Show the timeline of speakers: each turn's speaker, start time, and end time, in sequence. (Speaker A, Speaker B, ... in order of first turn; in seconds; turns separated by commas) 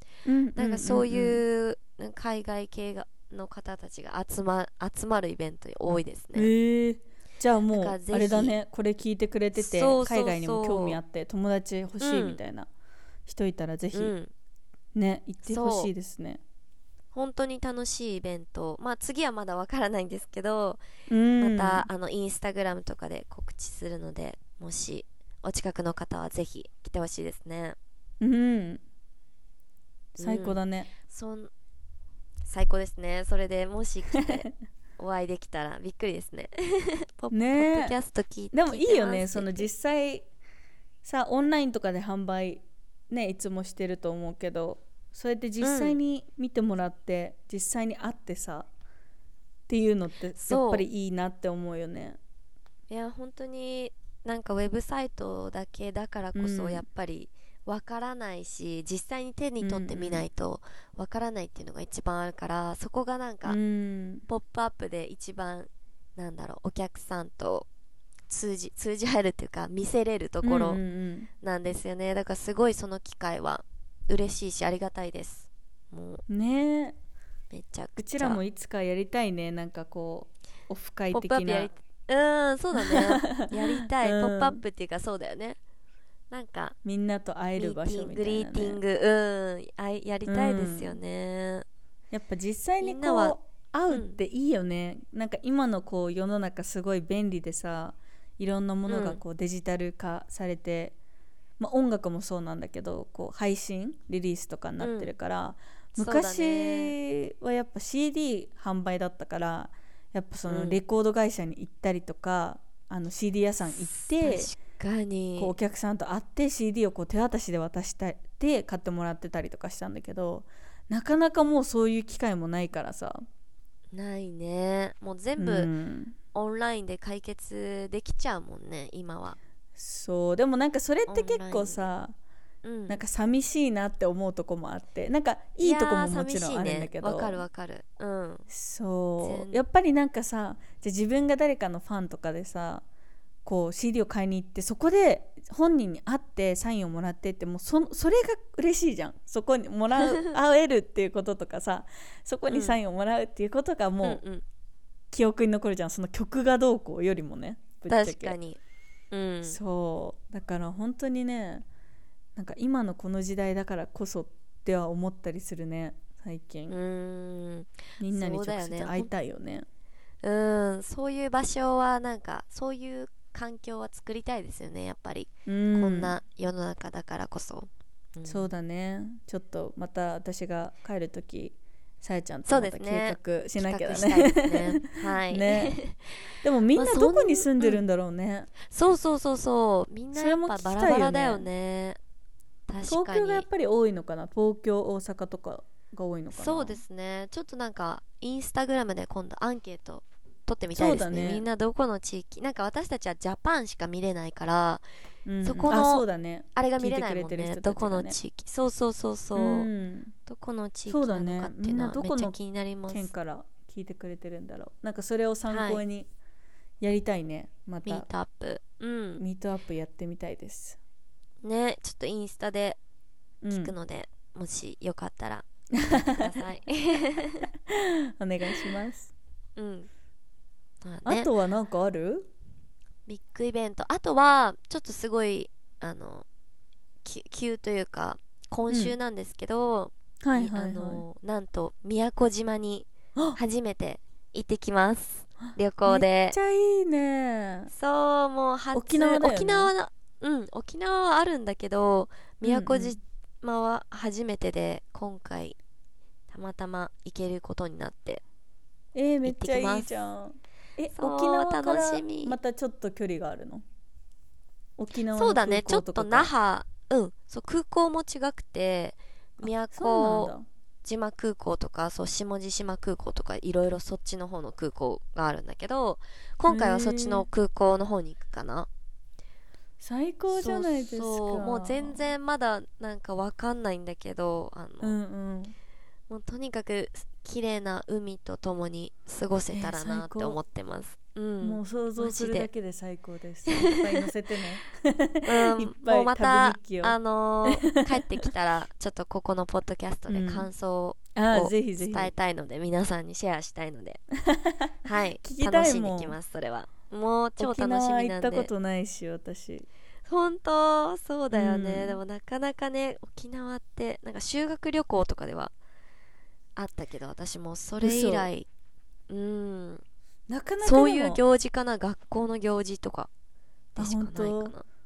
Speaker A: 0.2-1.4, Speaker B: 0.6-6.5, Speaker A: 6.3-12.7, Speaker B: 7.7-8.6, Speaker B: 9.6-11.0, Speaker B: 12.0-12.4, Speaker A: 13.2-14.1, Speaker B: 13.9-14.3, Speaker A: 14.9-16.4, Speaker B: 15.4-15.9, Speaker B: 17.1-20.8, Speaker A: 21.1-21.9, Speaker B: 21.4-27.8, Speaker A: 28.2-28.8, Speaker A: 30.2-30.9, Speaker B: 30.2-31.5, Speaker B: 32.5-39.7, Speaker A: 34.1-34.5, Speaker A: 37.3-37.9, Speaker A: 38.5-40.3, Speaker A: 41.0-48.7, Speaker B: 45.6-46.0, Speaker A: 49.7-52.2, Speaker B: 50.4-50.9, Speaker B: 52.9-63.6, Speaker A: 56.3-56.8, Speaker A: 59.6-60.2, Speaker A: 63.5-64.2, Speaker B: 64.3-67.7, Speaker B: 68.3-70.8, Speaker A: 70.4-71.3, Speaker B: 71.4-76.2, Speaker A: 76.3-77.0, Speaker B: 77.5-78.4, Speaker A: 78.0-81.7, Speaker B: 81.1-85.6, Speaker A: 82.8-84.6, Speaker B: 86.3-86.7, Speaker A: 86.8-88.8, Speaker B: 87.6-91.7, Speaker A: 90.3-91.0, Speaker A: 92.1-101.0, Speaker B: 92.8-93.3, Speaker B: 93.9-94.2, Speaker B: 98.9-99.2, Speaker A: 101.6-114.5, Speaker B: 104.8-105.1, Speaker B: 105.9-106.9, Speaker B: 110.5-110.8, Speaker B: 113.9-115.5, Speaker A: 115.4-123.2, Speaker B: 123.9-125.7, Speaker A: 125.4-126.2, Speaker B: 126.3-129.4, Speaker A: 129.8-132.1, Speaker B: 131.1-131.9, Speaker B: 132.6-133.0, Speaker A: 132.9-137.4, Speaker B: 135.6-138.5, Speaker A: 138.5-142.8, Speaker B: 139.2-139.6, Speaker A: 143.4-154.2, Speaker B: 150.0-150.3, Speaker B: 152.5-152.8, Speaker B: 154.0-154.4, Speaker A: 155.1-158.3, Speaker B: 157.9-158.6, Speaker B: 159.1-159.6, Speaker A: 159.4-161.6, Speaker A: 162.3-166.8, Speaker B: 166.7-169.1, Speaker A: 168.0-169.7, Speaker B: 170.2-178.5, Speaker A: 175.4-176.1, Speaker A: 178.2-185.8, Speaker B: 182.4-186.1, Speaker A: 186.4-188.5, Speaker B: 186.7-187.8, Speaker B: 188.6-192.0, Speaker A: 190.1-191.5, Speaker B: 192.7-193.4, Speaker A: 192.8-196.8, Speaker B: 196.3-204.8, Speaker A: 200.7-201.4, Speaker A: 205.2-208.2, Speaker B: 205.4-209.7, Speaker A: 209.3-210.1, Speaker B: 210.2-213.1, Speaker A: 210.9-212.3, Speaker A: 212.9-216.1, Speaker B: 215.5-215.8, Speaker A: 216.8-218.1, Speaker B: 217.8-219.2, Speaker A: 219.2-220.8, Speaker B: 221.4-222.8, Speaker A: 223.4-223.7, Speaker B: 223.5-227.5, Speaker A: 225.7-226.3, Speaker A: 227.7-229.1, Speaker B: 229.6-229.9, Speaker B: 230.8-231.3, Speaker A: 231.0-232.3, Speaker B: 233.1-236.2, Speaker B: 237.0-246.4, Speaker A: 238.7-238.9, Speaker A: 240.2-241.0, Speaker A: 245.8-247.7, Speaker B: 247.7-255.6, Speaker A: 248.7-249.7, Speaker A: 252.4-253.0, Speaker B: 256.3-258.2, Speaker A: 258.9-263.6, Speaker B: 259.2-259.9, Speaker B: 260.9-262.4, Speaker A: 264.8-266.3, Speaker B: 265.1-278.7, Speaker A: 269.4-270.4, Speaker A: 276.5-277.2, Speaker A: 279.8-282.0, Speaker B: 280.3-285.0, Speaker A: 284.8-285.5, Speaker B: 286.1-292.5, Speaker A: 289.5-290.4, Speaker A: 291.4-296.9, Speaker B: 293.5-294.1, Speaker B: 295.2-304.0, Speaker A: 297.5-298.3, Speaker A: 300.1-300.5, Speaker A: 301.1-302.1, Speaker A: 304.2-306.1, Speaker B: 304.8-308.5, Speaker A: 307.4-309.7, Speaker B: 310.1-315.5, Speaker A: 311.3-312.0, Speaker B: 316.6-318.5, Speaker A: 317.8-318.3, Speaker B: 319.1-319.8, Speaker A: 320.3-321.2, Speaker B: 320.6-323.1, Speaker B: 323.7-324.6, Speaker A: 323.8-324.5